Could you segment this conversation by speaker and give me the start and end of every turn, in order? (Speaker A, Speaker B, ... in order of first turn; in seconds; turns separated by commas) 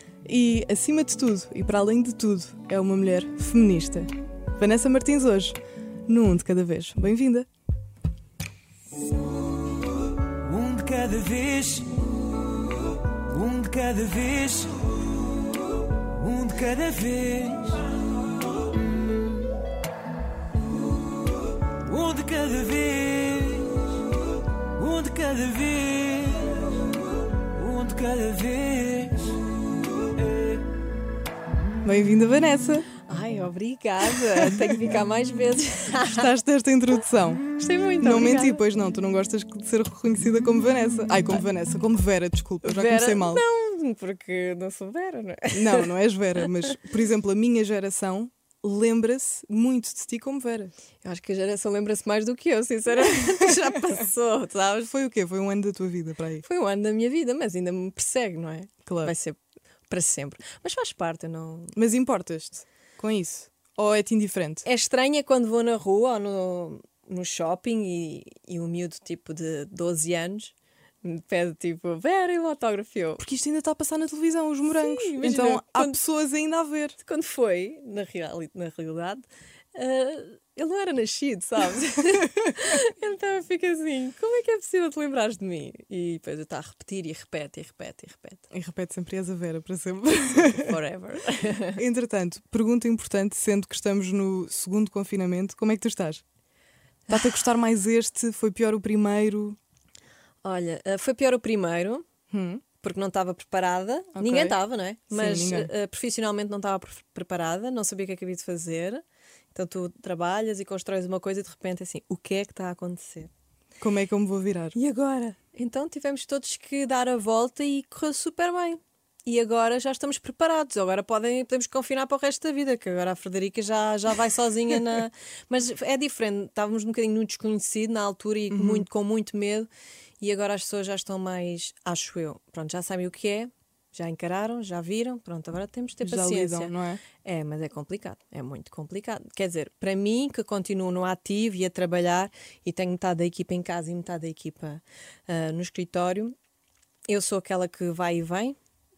Speaker A: 0.2-7.5, Speaker B: 10.4-12.1, Speaker B: 13.2-15.4, Speaker B: 16.0-17.8, Speaker B: 18.7-19.2, Speaker B: 21.7-24.0, Speaker B: 24.7-29.5, Speaker B: 30.0-30.6, Speaker A: 31.8-32.9, Speaker C: 33.1-36.3, Speaker A: 36.1-37.4, Speaker C: 37.5-38.6, Speaker A: 38.0-43.4, Speaker C: 42.6-45.9, Speaker A: 45.5-50.7, Speaker C: 51.0-54.9, Speaker A: 54.9-56.4, Speaker C: 56.4-59.4, Speaker A: 58.9-59.1, Speaker C: 59.9-61.8, Speaker A: 61.8-64.7, Speaker C: 64.7-73.2, Speaker A: 73.2-77.0, Speaker C: 74.7-76.0, Speaker C: 77.0-88.5, Speaker A: 88.5-90.8, Speaker C: 90.3-91.8, Speaker A: 91.8-96.2, Speaker A: 97.1-99.6, Speaker C: 100.4-102.1, Speaker A: 102.3-102.6, Speaker C: 102.8-109.0, Speaker A: 104.2-104.6, Speaker A: 105.1-105.7, Speaker C: 109.5-113.3, Speaker A: 113.8-114.8, Speaker C: 114.8-129.7, Speaker A: 128.5-128.9, Speaker C: 130.2-146.3, Speaker A: 136.0-137.0, Speaker C: 147.1-148.6